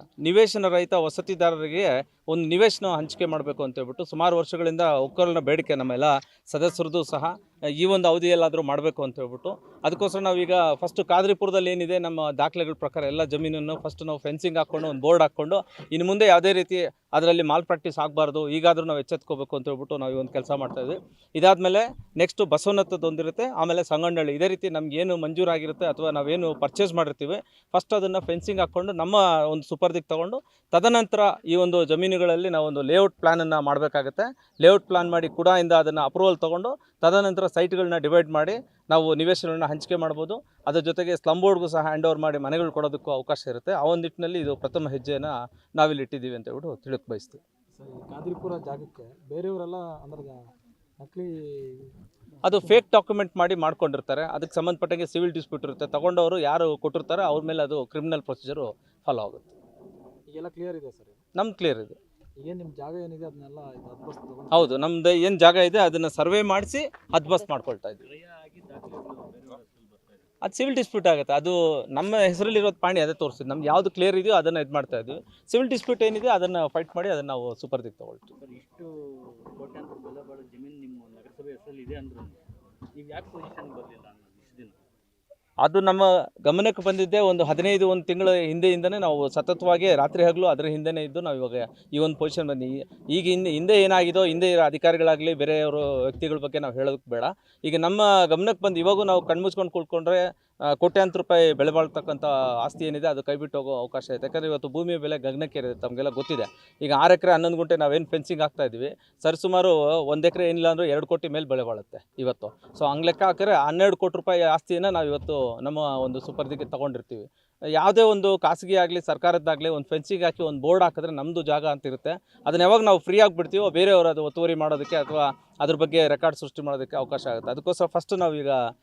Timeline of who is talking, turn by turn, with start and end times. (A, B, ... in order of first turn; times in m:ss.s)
0:00.2-0:47.4 A
0:47.8-0:50.4 B
0:51.0-0:51.9 B
0:52.4-0:59.5 A
0:52.5-0:52.8 B
1:00.3-1:01.2 B
1:01.4-1:02.0 A
1:02.4-1:04.8 B
1:04.5-1:08.0 A
1:08.0-1:10.2 C
1:10.4-1:18.3 A
1:18.4-1:22.4 C
1:22.9-1:24.8 C
1:25.6-1:57.3 A
1:57.8-2:08.6 A